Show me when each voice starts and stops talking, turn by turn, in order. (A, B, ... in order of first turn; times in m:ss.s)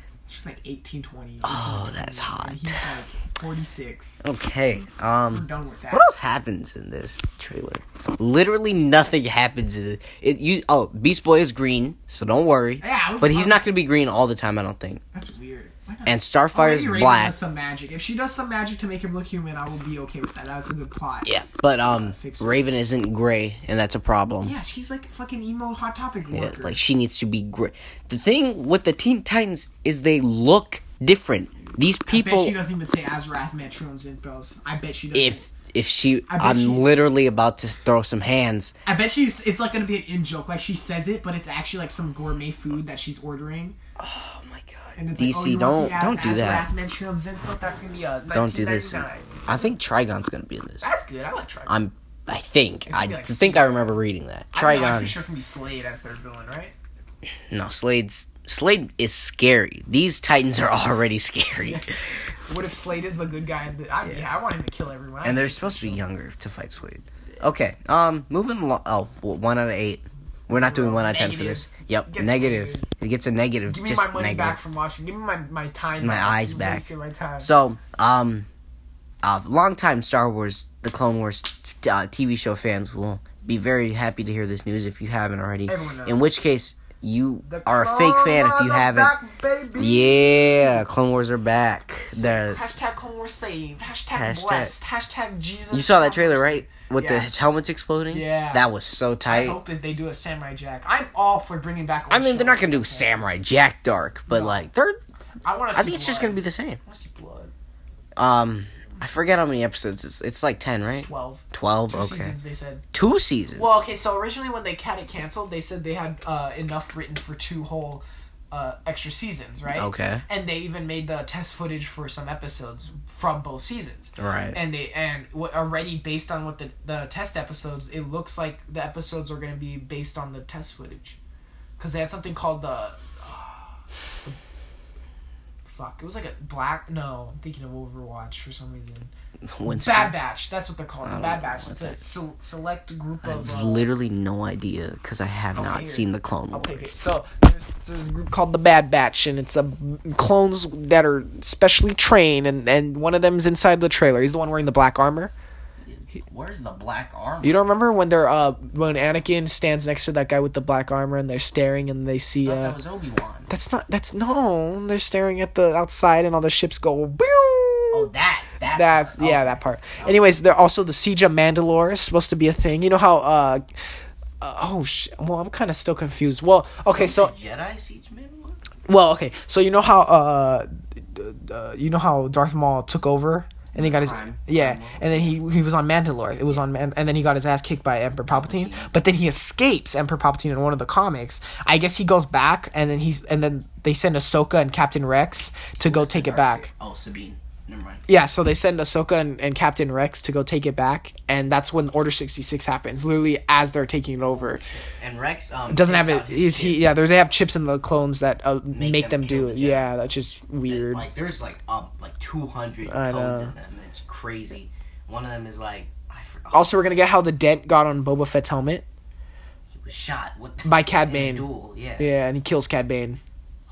0:00.3-0:04.2 A
0:01.4-0:02.8 B
0:04.2-0:15.0 B
0:05.3-0:06.1 A
0:12.8-0:13.6 A
0:15.1-0:22.6 A
0:16.1-0:17.4 B
0:21.3-0:24.6 B
0:24.4-0:26.8 A
0:26.3-0:32.6 B
0:32.0-0:35.5 A
0:35.1-0:38.7 B
0:36.3-0:36.9 A
0:38.9-0:43.8 A
0:44.0-0:46.7 B
0:45.0-0:49.4 A
0:48.3-0:50.9 B
0:50.8-0:51.8 A
0:51.7-0:55.2 B
0:52.9-0:53.8 A
0:54.5-0:56.7 A
0:57.5-1:01.9 B
1:02.5-1:06.0 A
1:05.2-1:14.6 B
1:10.5-1:12.9 A
1:13.7-1:17.5 A
1:16.0-1:16.9 B
1:17.4-1:18.5 B
1:19.2-1:29.2 B
1:25.7-1:26.2 A
1:27.4-1:30.8 A
1:29.8-1:32.6 B
1:32.1-1:37.3 A
1:34.1-1:34.7 B
1:35.7-1:39.6 B
1:38.1-1:38.7 A
1:39.3-1:43.2 A
1:42.1-1:45.0 B
1:44.3-1:44.6 A
1:45.4-1:47.5 A
1:45.7-1:46.8 B
1:48.2-1:52.4 B
1:50.9-1:52.8 A
1:52.9-1:53.7 B
1:53.6-2:11.2 A
1:59.7-2:00.2 B
2:04.2-2:04.6 B
2:11.8-2:14.4 A
2:15.6-2:19.1 A
2:19.5-2:20.2 B
2:19.6-2:23.9 A
2:21.0-2:22.0 B
2:23.2-2:27.0 B
2:25.5-2:35.3 A
2:35.8-2:37.6 B
2:37.4-2:42.8 A
2:42.4-2:43.5 B
2:43.5-2:48.1 A
2:47.9-2:50.2 B
2:48.7-2:53.6 A
2:54.4-2:57.3 A
2:56.9-2:58.6 B
2:58.9-3:16.7 A
3:03.8-3:05.4 B
3:08.3-3:09.0 B
3:15.8-3:18.0 B
3:18.1-3:24.7 A
3:24.4-3:26.9 B
3:25.7-3:31.1 A
3:28.7-3:29.9 B
3:30.7-3:36.9 B
3:32.9-3:33.5 A
3:36.5-3:38.8 A
3:39.7-3:42.1 B
3:40.6-3:43.2 A